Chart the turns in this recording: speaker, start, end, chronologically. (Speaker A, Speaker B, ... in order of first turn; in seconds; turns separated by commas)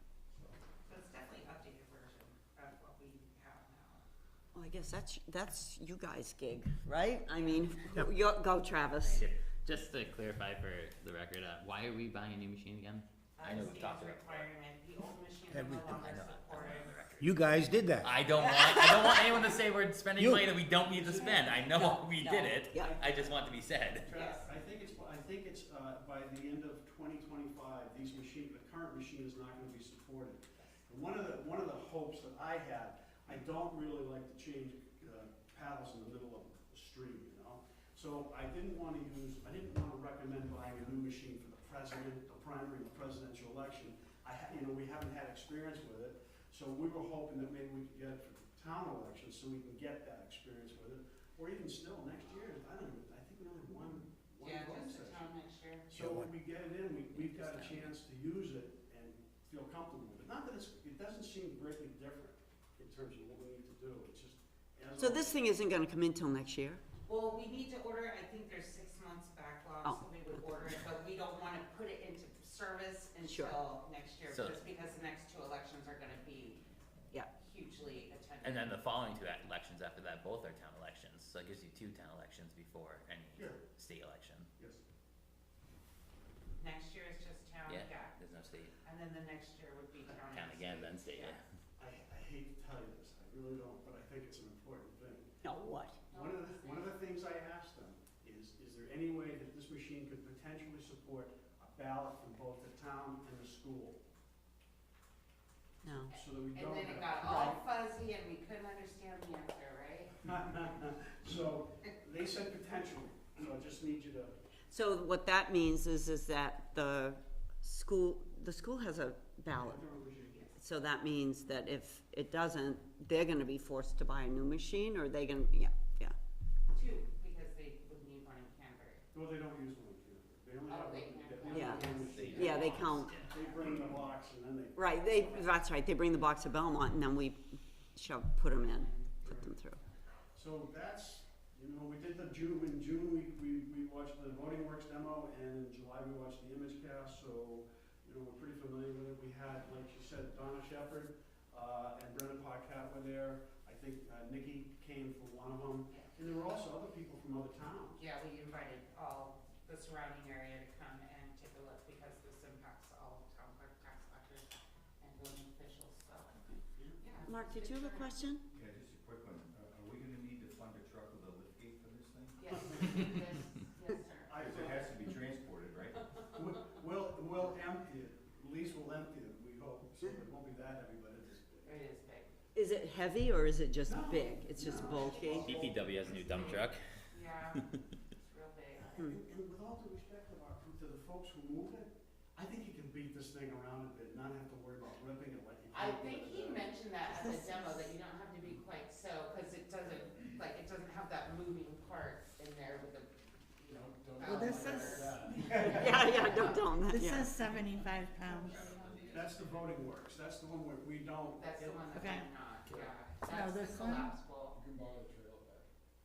Speaker A: 0.8-4.0, Speaker B: 4.5-9.3, Speaker A: 7.4-7.8, Speaker C: 9.2-14.1, Speaker A: 13.4-17.3, Speaker D: 13.7-14.5, Speaker E: 15.5-15.9, Speaker D: 15.9-16.6, Speaker C: 15.9-17.2, Speaker E: 17.2-18.1, Speaker C: 18.3-23.1, Speaker B: 18.4-19.5, Speaker D: 19.1-21.9, Speaker E: 20.2-20.4, Speaker F: 20.9-21.6, Speaker B: 21.5-22.9, Speaker D: 22.6-23.8, Speaker F: 22.7-23.4, Speaker C: 23.7-24.0, Speaker F: 24.0-55.2, Speaker A: 24.1-24.4, Speaker A: 54.4-55.9, Speaker F: 55.9-65.4, Speaker B: 65.0-66.8, Speaker A: 67.0-76.6, Speaker B: 73.2-73.6, Speaker A: 77.4-78.7, Speaker C: 78.4-84.5, Speaker A: 86.6-88.2, Speaker C: 87.7-88.7, Speaker A: 88.8-91.4, Speaker C: 90.3-91.4, Speaker F: 91.8-104.0, Speaker B: 95.4-96.0, Speaker A: 96.1-97.0, Speaker B: 105.8-106.1, Speaker A: 106.1-110.2, Speaker F: 106.1-107.6, Speaker B: 107.2-107.5, Speaker F: 110.2-114.3, Speaker B: 114.7-119.8, Speaker F: 119.5-120.4, Speaker B: 120.6-126.1, Speaker A: 126.7-129.0, Speaker F: 129.1-135.4, Speaker A: 130.7-133.5, Speaker B: 131.5-133.1, Speaker D: 132.0-133.2, Speaker B: 134.8-139.8, Speaker A: 138.5-139.2, Speaker F: 139.2-139.5, Speaker F: 140.3-158.0, Speaker A: 157.9-168.2, Speaker F: 166.7-167.0, Speaker B: 167.2-168.4, Speaker D: 168.5-173.2, Speaker A: 172.4-174.9, Speaker F: 174.3-174.9, Speaker D: 174.4-176.1, Speaker F: 176.3-181.8, Speaker A: 181.6-182.3, Speaker B: 182.5-185.5, Speaker F: 183.8-186.7, Speaker A: 184.7-189.0, Speaker D: 185.4-186.6, Speaker C: 185.6-186.0, Speaker F: 188.9-196.7, Speaker A: 195.7-206.5, Speaker E: 203.7-206.4, Speaker G: 204.2-205.0, Speaker B: 205.4-207.3, Speaker G: 206.9-209.0, Speaker E: 208.3-209.3, Speaker F: 209.0-211.8, Speaker A: 211.3-214.6, Speaker G: 211.9-212.3, Speaker E: 212.7-212.9, Speaker G: 213.2-214.1, Speaker E: 214.5-215.7